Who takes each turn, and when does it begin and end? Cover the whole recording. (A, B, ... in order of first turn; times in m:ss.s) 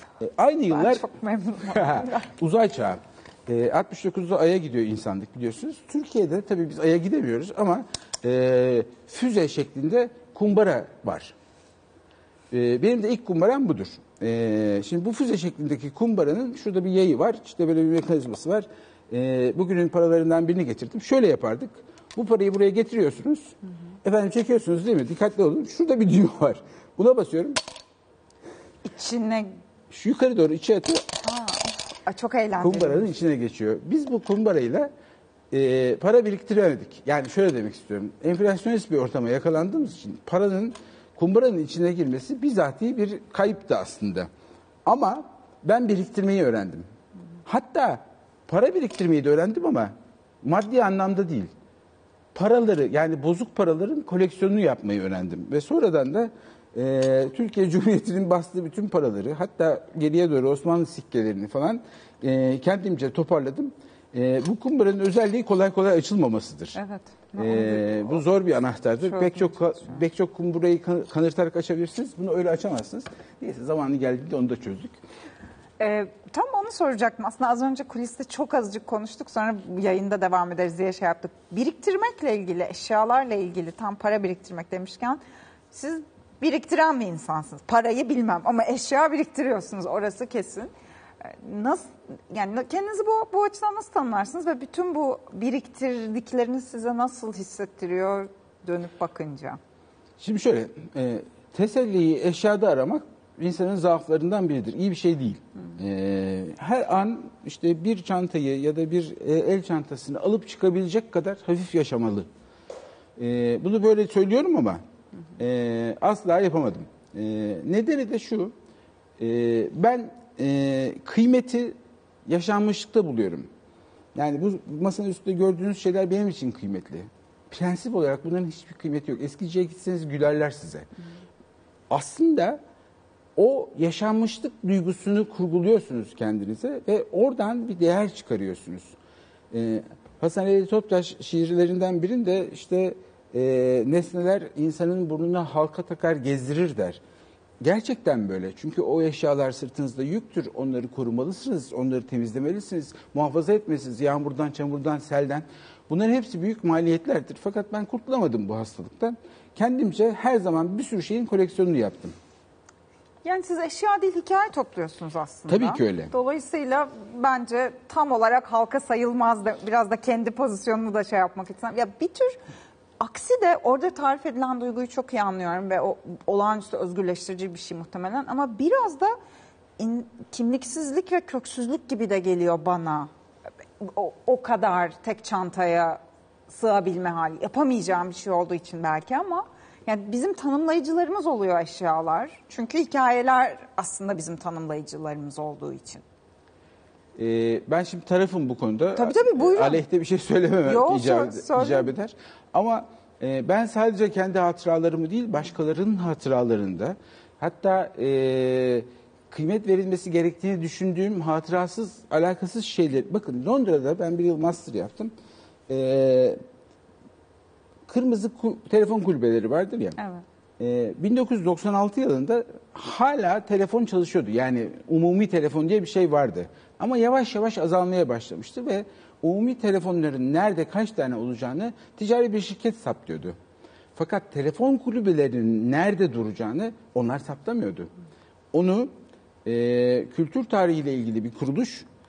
0:00.2-0:01.0 A
0:00.7-0:02.3 B
0:01.7-0:11.3 A
0:12.5-0:27.6 A
0:28.8-0:29.6 B
0:29.9-0:31.1 A
0:31.2-0:33.0 B
0:32.6-0:34.9 A
0:35.5-0:44.3 A
0:44.8-0:46.9 A
0:47.4-0:51.5 A
0:52.3-1:06.8 A
1:06.7-1:08.2 B
1:07.4-1:15.0 A
1:09.0-1:10.0 B
1:15.8-1:25.2 B
1:25.7-1:30.7 B
1:31.2-1:39.6 B
1:40.2-1:52.3 A
1:53.2-1:54.8 A
1:55.4-1:58.5 A
1:59.2-2:03.5 A
2:04.1-2:10.9 A
2:11.9-2:12.6 A
2:13.4-2:18.9 A
2:19.5-2:27.0 A
2:27.6-2:42.2 A
2:43.2-2:52.4 B
2:45.5-2:46.1 A
2:53.0-2:59.1 B
2:59.8-3:03.1 B
3:03.8-3:16.0 B
3:17.2-3:35.1 A
3:19.0-3:19.8 B
3:20.6-3:21.9 B
3:35.7-3:36.4 A
3:37.9-3:40.0 A
3:40.0-3:40.2 B
3:40.6-3:53.4 A
3:54.0-3:57.9 A
3:58.5-3:58.9 A
3:59.4-4:01.8 A